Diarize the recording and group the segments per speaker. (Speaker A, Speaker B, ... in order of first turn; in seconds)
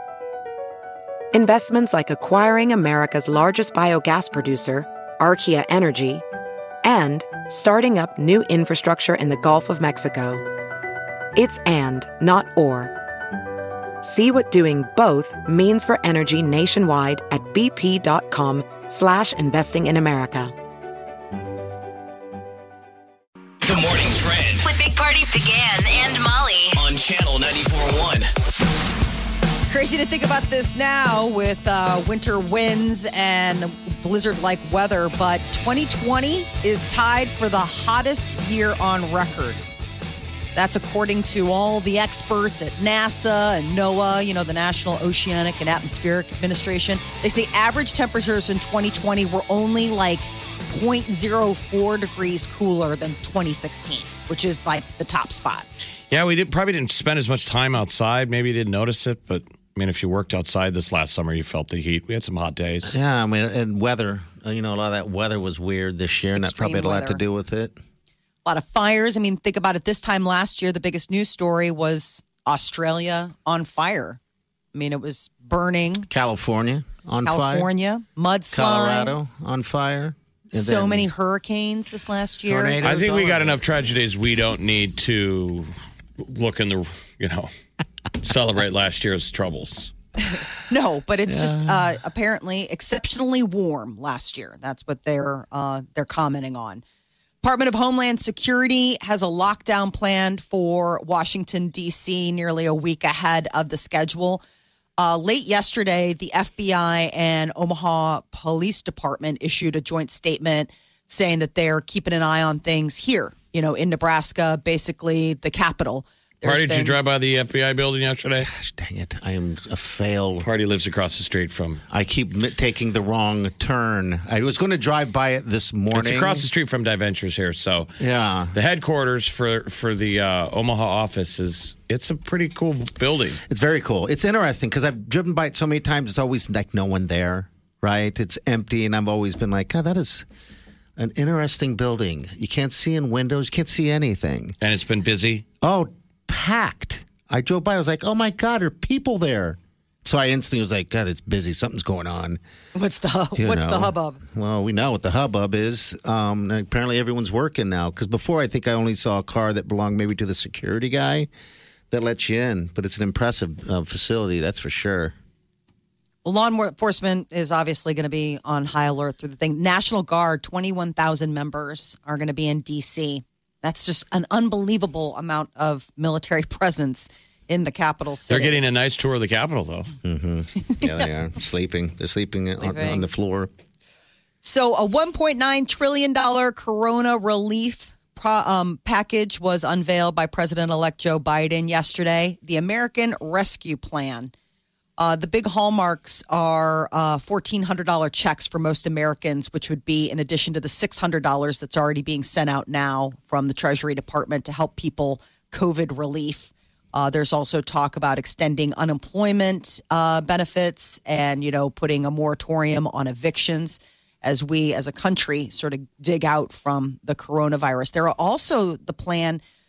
Speaker A: 1.3-6.2, 6.8-10.4, 11.3-12.9, 14.0-20.5
Speaker B: 23.6-24.7, 26.8-28.3
Speaker C: 24.6-26.8
Speaker D: 29.6-39.7, 40.5-55.7, 66.4-67.2, 68.5-74.2, 74.7-76.1, 77.2-79.3, 80.5-82.8, 90.3-96.8, 97.4-104.4, 105.0-117.0, 152.8-154.2, 166.2-178.6, 182.6-183.1, 184.4-194.3, 195.0-219.4
Speaker E: 56.1-63.0, 82.8-87.5, 88.2-89.9, 116.4-118.5, 120.4-121.8, 125.9-127.9, 128.5-133.4, 144.6-145.4, 178.3-179.9
Speaker F: 62.9-67.7, 76.1-77.7, 78.5-81.1, 82.5-83.6, 91.3-92.0, 118.4-120.5, 121.9-126.5, 128.0-128.6, 133.5-140.3, 141.0-144.6, 145.6-152.4, 153.4-161.3, 161.9-165.2, 180.0-183.5